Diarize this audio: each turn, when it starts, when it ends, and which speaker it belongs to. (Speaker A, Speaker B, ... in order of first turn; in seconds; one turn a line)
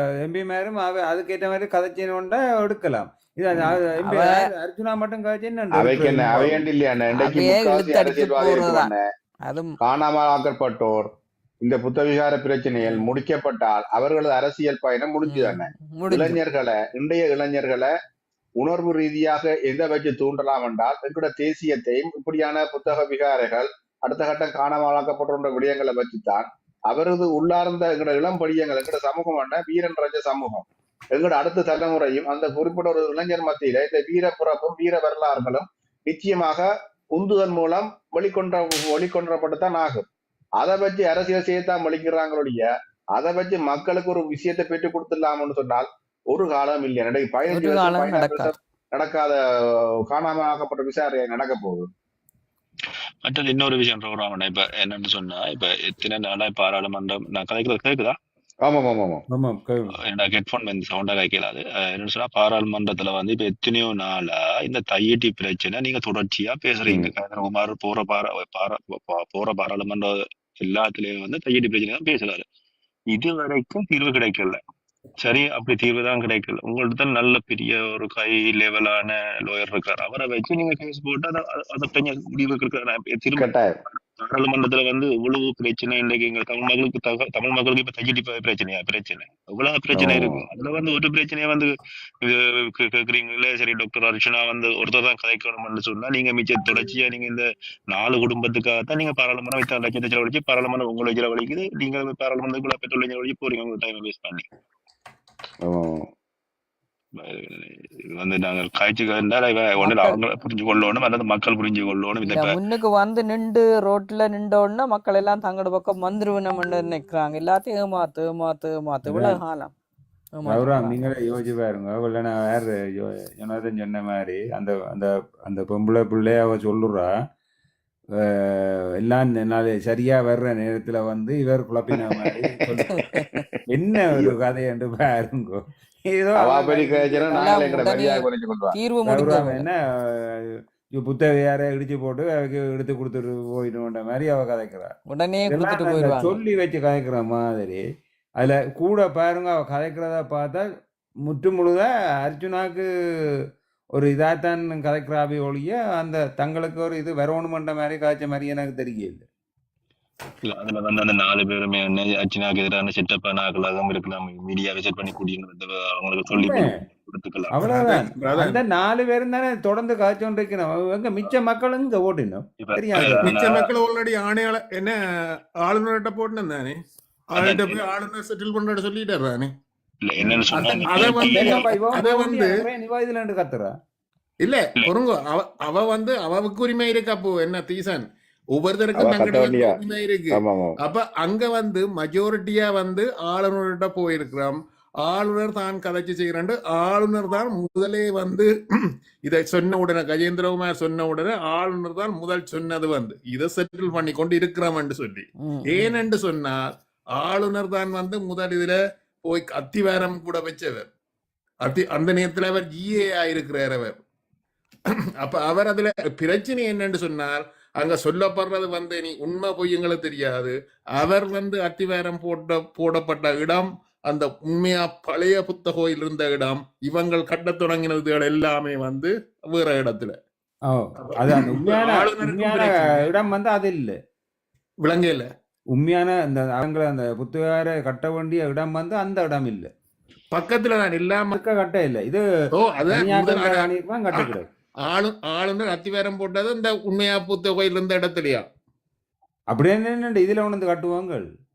Speaker A: 0.2-6.7
Speaker B: 4.1-4.5
Speaker C: 5.7-9.0
Speaker B: 7.1-8.9
Speaker B: 9.5-9.7
Speaker C: 9.8-11.1
Speaker C: 11.6-17.9
Speaker B: 12.8-13.1
Speaker B: 15.3-16.4
Speaker C: 18.6-40.1
Speaker C: 40.6-49.4
Speaker B: 47.5-48.6
Speaker C: 50.1-51.9
Speaker D: 53.2-58.1
Speaker C: 58.6-59.2
Speaker A: 59.3-59.9
Speaker D: 60.1-72.4
Speaker C: 66.9-67.1
Speaker D: 73.1-74.6
Speaker D: 75.2-83.5
Speaker C: 83.4-83.7
Speaker D: 84.2-91.7
Speaker C: 89.9-90.4
Speaker D: 92.2-104.4
Speaker C: 105.6-106.0
Speaker D: 107.2-112.6
Speaker B: 109.8-110.2
Speaker B: 112.2-119.7
Speaker A: 119.1-119.4
Speaker B: 120.4-121.1
Speaker A: 120.5-127.1
Speaker A: 128.2-133.0
Speaker C: 133.1-133.4
Speaker A: 133.7-137.6
Speaker C: 136.4-138.8
Speaker B: 137.4-139.7
Speaker A: 139.1-144.9
Speaker B: 145.1-146.4
Speaker A: 145.5-147.8
Speaker A: 148.4-150.7
Speaker A: 151.2-152.8
Speaker A: 153.9-159.2
Speaker D: 160.4-167.6
Speaker A: 166.3-166.7
Speaker A: 167.5-173.4
Speaker E: 167.6-168.6
Speaker D: 172.6-173.7
Speaker E: 173.0-175.0
Speaker E: 175.6-176.8
Speaker E: 177.3-179.5
Speaker D: 177.4-177.8
Speaker D: 180.0-181.7
Speaker E: 180.6-182.5
Speaker A: 181.0-183.7
Speaker E: 184.4-198.5
Speaker C: 188.9-190.8
Speaker E: 199.2-206.6
Speaker B: 205.4-205.9
Speaker E: 207.2-210.9
Speaker E: 211.6-214.0
Speaker E: 215.2-230.2
Speaker A: 230.7-234.0
Speaker E: 231.0-233.1
Speaker E: 234.8-235.3
Speaker A: 235.7-239.7
Speaker E: 240.3-241.4
Speaker A: 241.3-242.2
Speaker E: 242.6-244.3
Speaker A: 242.9-244.5
Speaker E: 244.9-248.5
Speaker A: 249.5-251.2